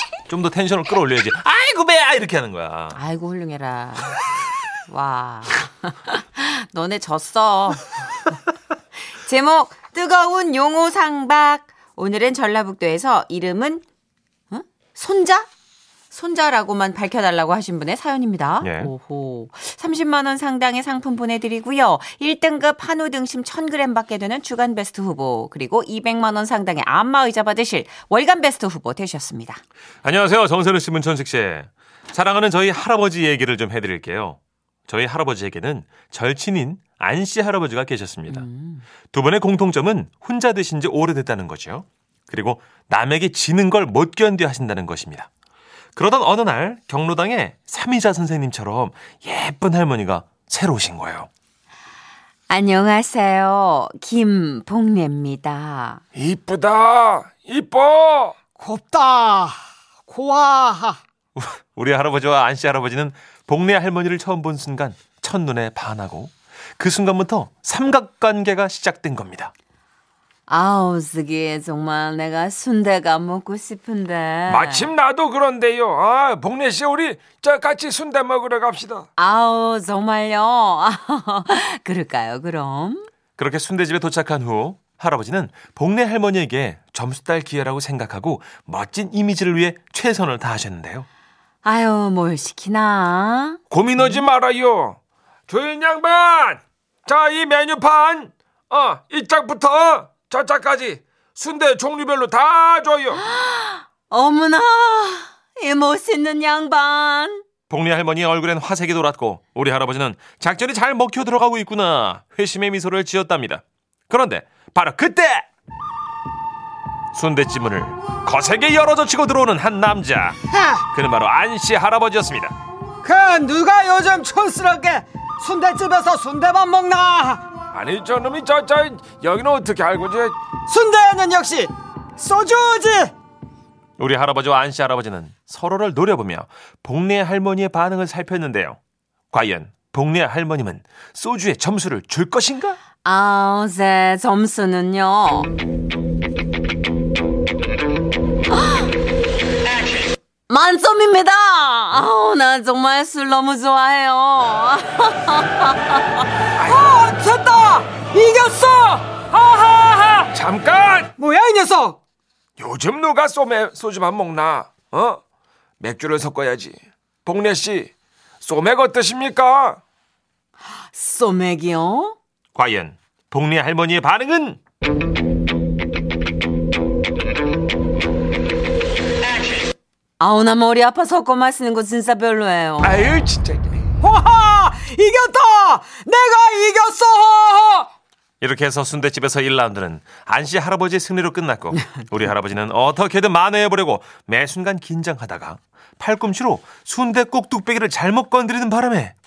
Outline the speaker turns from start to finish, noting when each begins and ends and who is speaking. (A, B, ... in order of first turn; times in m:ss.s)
0:00.3-0:03.0 A
0:02.9-0:07.9 B
0:09.1-0:13.8 B
0:14.5-0:15.5 B
0:16.1-0:29.6 B
0:18.6-0:18.9 A
0:30.0-0:38.5 A
0:38.3-0:38.8 B
0:39.1-0:45.3 A
0:46.0-0:51.3 A
0:52.5-0:56.0 B
0:56.2-0:58.3 C
0:56.2-0:58.3 A
0:58.6-1:01.0 D
1:01.4-1:09.5 A
1:10.5-1:14.9 B
1:14.5-1:19.0 C
1:14.5-1:14.9 A
1:17.2-1:17.4 A
1:19.2-1:23.1 B
1:23.4-1:31.1 A
1:31.6-1:34.2 B
1:33.7-1:35.0 C
1:33.7-1:34.6 A
1:35.5-1:43.2 C
1:37.5-1:39.0 A
1:39.6-1:40.4 A
1:41.4-1:42.3 A
1:43.2-1:47.4 B
1:47.7-1:55.5 A
1:57.1-2:00.4 A
2:00.5-2:00.8 D
2:00.9-2:02.5 A
2:03.0-2:07.4 D
2:07.8-2:09.8 C
2:07.8-2:10.3 A
2:10.7-2:13.1 D
2:14.0-2:18.8 A
2:19.3-2:22.8 A
2:23.0-2:25.5 B
2:28.5-2:28.9 B
2:30.5-2:36.2 B
2:36.6-2:40.3 D
2:40.3-2:41.1 A
2:41.2-2:42.0 D
2:42.6-2:45.2 A
2:42.6-2:43.2 C
2:43.8-2:45.0 C
2:45.8-2:46.7 A
2:47.3-2:47.9 A
2:48.4-2:49.8 A
2:48.8-2:49.8 C
2:50.9-2:52.2 B
2:52.5-2:54.6 A
3:00.2-3:03.1 B
3:02.9-3:03.7 A
3:04.0-3:07.9 D
3:08.4-3:19.1 A